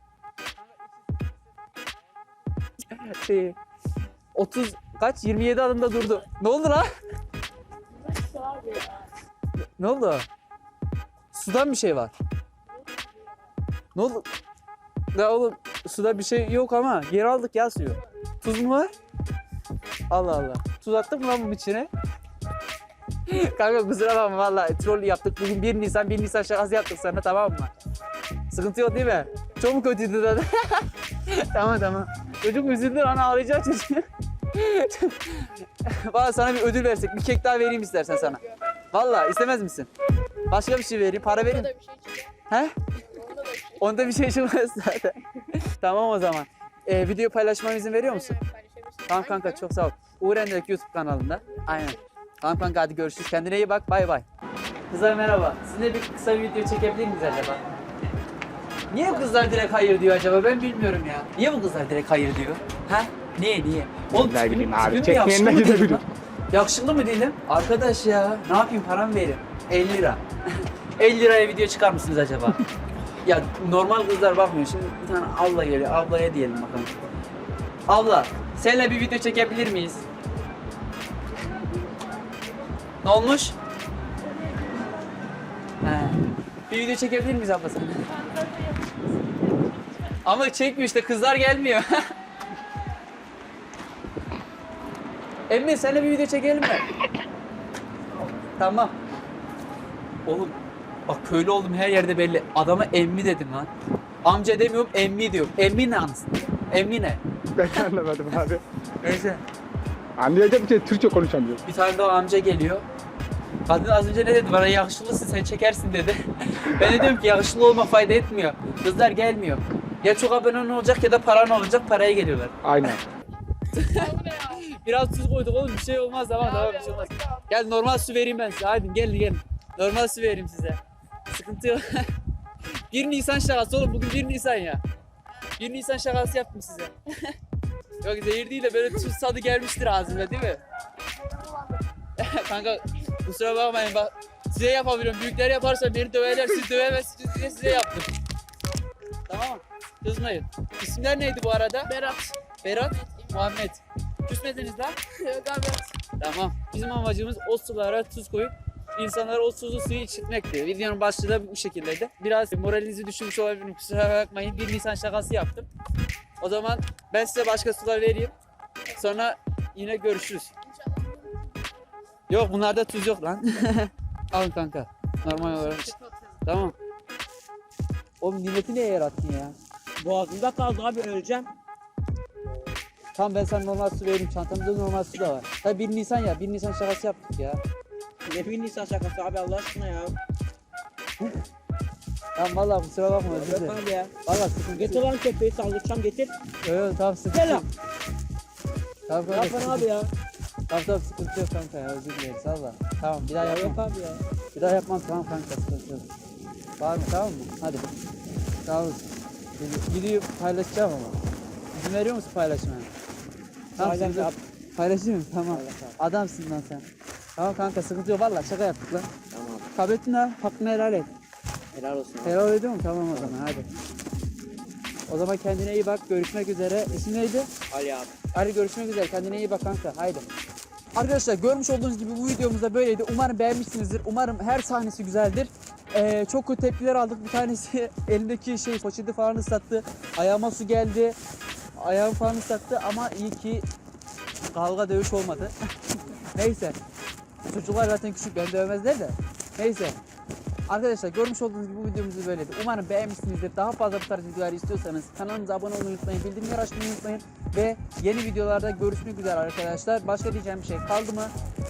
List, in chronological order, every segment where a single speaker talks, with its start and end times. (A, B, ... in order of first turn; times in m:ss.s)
0:00.5-0:03.6 A
0:04.3-0:06.9 A
0:08.2-0:09.0 B
0:09.8-0:10.2 A
0:11.3-0:12.1 A
0:13.9-0:14.2 A
0:15.1-0:18.9 A
0:20.1-0:21.9 A
0:23.3-0:27.7 A
0:28.5-0:38.4 A
0:38.9-0:39.9 A
0:40.5-0:41.7 A
0:41.2-0:42.3 B
0:42.5-0:42.7 A
0:43.0-0:43.8 B
0:43.8-0:48.4 A
0:48.1-0:49.6 B
0:49.1-0:54.2 A
0:51.7-0:52.0 B
0:54.9-0:57.6 A
0:58.9-1:12.6 A
1:04.2-1:06.0 C
1:13.2-1:16.9 A
1:17.9-1:20.0 A
1:23.0-1:23.5 A
1:25.8-1:28.1 A
1:28.2-1:29.6 B
1:30.2-1:32.0 A
1:35.5-1:36.9 A
1:38.6-1:39.0 A
1:40.2-1:43.7 A
1:44.2-1:47.2 A
1:47.6-1:48.6 C
1:49.0-1:49.4 A
1:50.2-1:51.6 C
1:51.6-1:52.8 A
1:53.7-2:02.5 A
2:02.6-2:03.0 C
2:03.7-2:10.8 A
2:04.0-2:04.6 B
2:06.5-2:07.3 B
2:11.3-2:12.1 A
2:12.9-2:14.8 A
2:15.6-2:17.3 A
2:18.0-2:20.6 A
2:22.2-2:28.1 A
2:29.3-2:31.9 A
2:31.9-2:32.4 B
2:32.6-2:35.0 A
2:35.2-2:35.9 B
2:36.2-2:45.7 A
2:46.4-2:48.3 A
2:48.9-2:50.5 A
2:52.3-2:56.7 A
2:58.2-2:59.5 A
3:00.0-3:01.5 D
3:03.1-3:07.6 A
3:08.2-3:10.2 D
3:12.4-3:15.0 A
3:13.2-3:14.1 D
3:14.7-3:16.3 D
3:16.6-3:17.6 A
3:17.3-3:17.6 D
3:19.1-3:19.9 A
3:19.3-3:20.1 D
3:20.7-3:23.8 A
3:23.4-3:24.2 D
3:24.5-3:26.1 A
3:26.8-3:27.8 A
3:28.6-3:29.0 A
3:29.6-3:31.2 A
3:31.7-3:32.9 A
3:33.8-3:34.4 D
3:33.8-3:36.8 A
3:35.5-3:36.0 D
3:37.4-3:39.1 A
3:39.3-3:39.7 D
3:39.7-3:41.1 A
3:41.7-3:42.4 D
3:42.2-3:43.7 A
3:43.1-3:43.4 D
3:45.1-3:47.5 A
3:47.7-3:48.1 D
3:48.3-3:50.2 A
3:50.9-4:01.2 A
4:01.8-4:03.6 A
4:04.5-4:05.5 A
4:06.3-4:06.8 A
4:07.5-4:10.0 A
4:10.7-4:21.3 A